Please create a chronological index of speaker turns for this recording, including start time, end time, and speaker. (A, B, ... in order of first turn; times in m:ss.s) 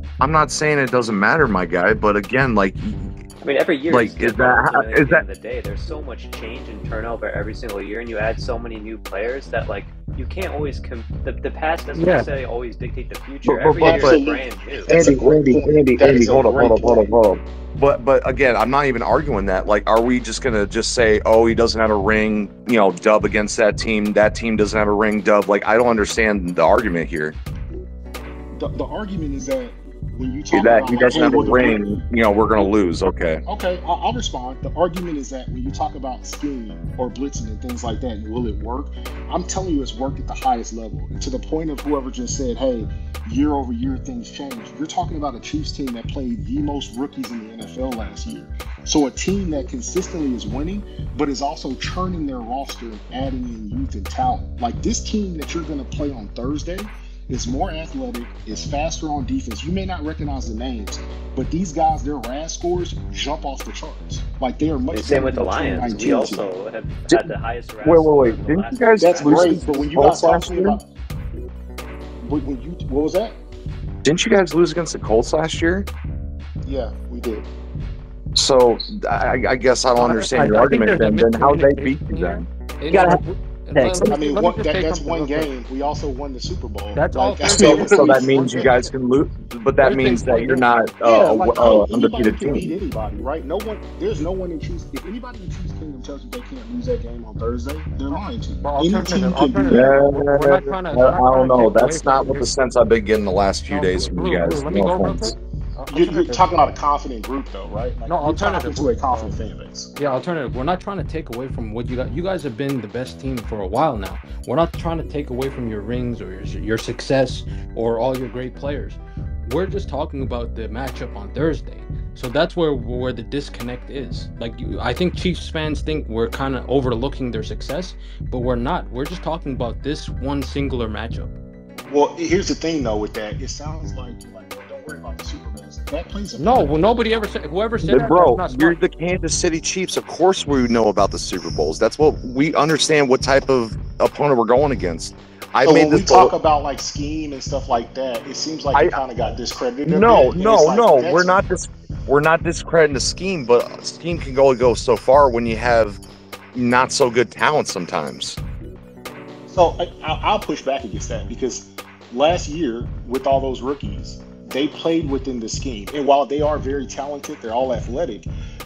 0:00.2-0:03.1 A
0:03.4-0:15.0 B
0:03.9-0:05.2 A
0:12.0-0:12.3 C
0:13.4-0:14.2 A
0:13.8-0:17.1 D
0:14.9-0:27.4 A
0:28.6-0:31.9 D
0:30.5-0:33.4 A
0:33.5-1:06.5 D
1:04.9-1:09.9 B
1:07.8-1:10.8 A
1:09.0-1:10.9 D
1:12.2-1:13.4 D
1:14.0-1:15.9 A
1:16.6-1:17.5 D
1:18.4-1:23.2 A
1:20.0-1:25.5 C
1:24.0-1:28.9 D
1:26.9-1:28.7 C
1:27.4-1:32.7 A
1:29.8-1:30.6 C
1:31.0-1:39.9 D
1:38.1-1:42.5 C
1:39.7-1:45.4 A
1:43.7-1:46.5 C
1:45.9-1:49.9 D
1:48.1-1:49.4 C
1:50.0-2:11.3 C
2:11.9-2:17.0 D
2:16.4-2:18.8 C
2:17.9-2:26.3 A
2:25.6-2:31.4 D
2:29.9-2:36.0 A
2:36.5-2:38.4 A
2:39.5-2:48.3 D